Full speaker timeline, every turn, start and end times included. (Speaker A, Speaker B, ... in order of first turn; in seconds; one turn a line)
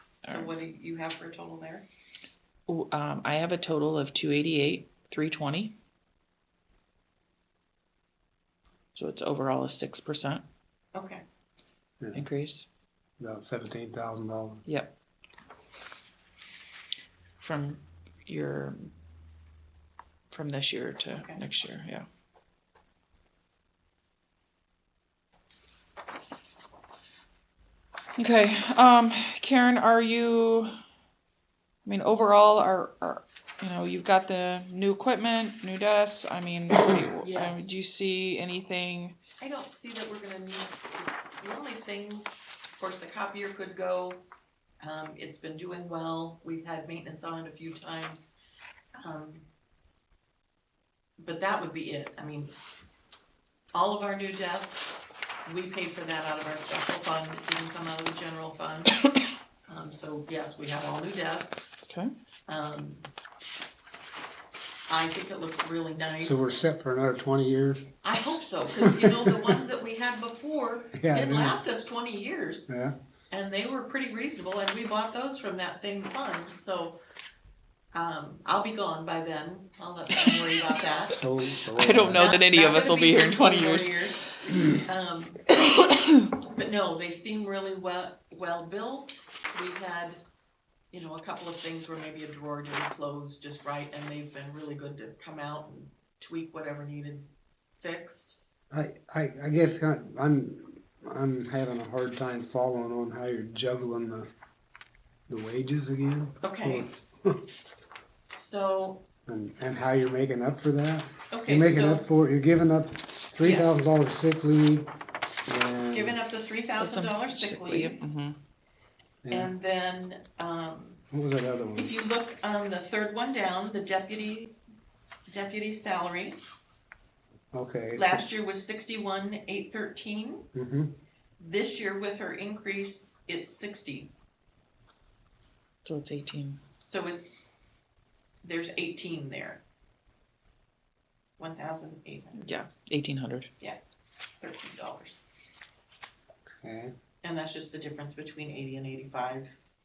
Speaker A: 0.2-0.5
Speaker B: 0.3-1.9
Speaker A: 2.7-5.7
Speaker A: 8.9-10.4
Speaker B: 10.9-11.2
Speaker C: 12.0-12.3
Speaker A: 12.1-12.7
Speaker C: 13.2-14.7
Speaker A: 14.7-14.9
Speaker A: 17.4-18.9
Speaker A: 20.3-22.1
Speaker B: 21.1-21.4
Speaker A: 28.2-30.7
Speaker A: 31.9-39.2
Speaker B: 37.1-37.8
Speaker B: 39.4-42.3
Speaker B: 42.8-44.2
Speaker B: 44.8-48.3
Speaker B: 49.0-49.4
Speaker B: 51.2-52.5
Speaker B: 53.7-59.0
Speaker B: 59.7-61.8
Speaker B: 62.5-63.1
Speaker B: 64.9-66.5
Speaker C: 66.2-67.9
Speaker B: 68.0-72.7
Speaker C: 68.8-69.5
Speaker C: 71.0-71.6
Speaker C: 72.7-73.0
Speaker B: 73.3-77.0
Speaker B: 77.9-81.2
Speaker C: 81.2-82.4
Speaker A: 81.7-84.7
Speaker B: 82.1-85.5
Speaker A: 85.5-86.3
Speaker B: 86.4-90.2
Speaker B: 90.9-97.3
Speaker B: 97.8-98.4
Speaker C: 98.7-104.3
Speaker C: 105.3-107.5
Speaker B: 106.4-106.9
Speaker B: 108.3-109.0
Speaker C: 109.3-114.9
Speaker B: 111.3-112.1
Speaker B: 113.4-113.8
Speaker C: 115.5-116.2
Speaker B: 115.9-118.0
Speaker A: 116.8-118.4
Speaker C: 119.2-119.5
Speaker B: 119.3-121.0
Speaker C: 121.1-121.9
Speaker B: 121.8-124.5
Speaker B: 125.3-126.4
Speaker C: 127.5-128.3
Speaker B: 128.0-130.5
Speaker C: 130.5-131.0
Speaker B: 131.4-134.1
Speaker A: 135.8-136.6
Speaker B: 136.8-137.4
Speaker B: 138.4-139.6
Speaker B: 141.4-142.5
Speaker A: 142.4-143.5
Speaker B: 144.4-145.2
Speaker C: 146.6-146.9
Speaker B: 147.2-149.5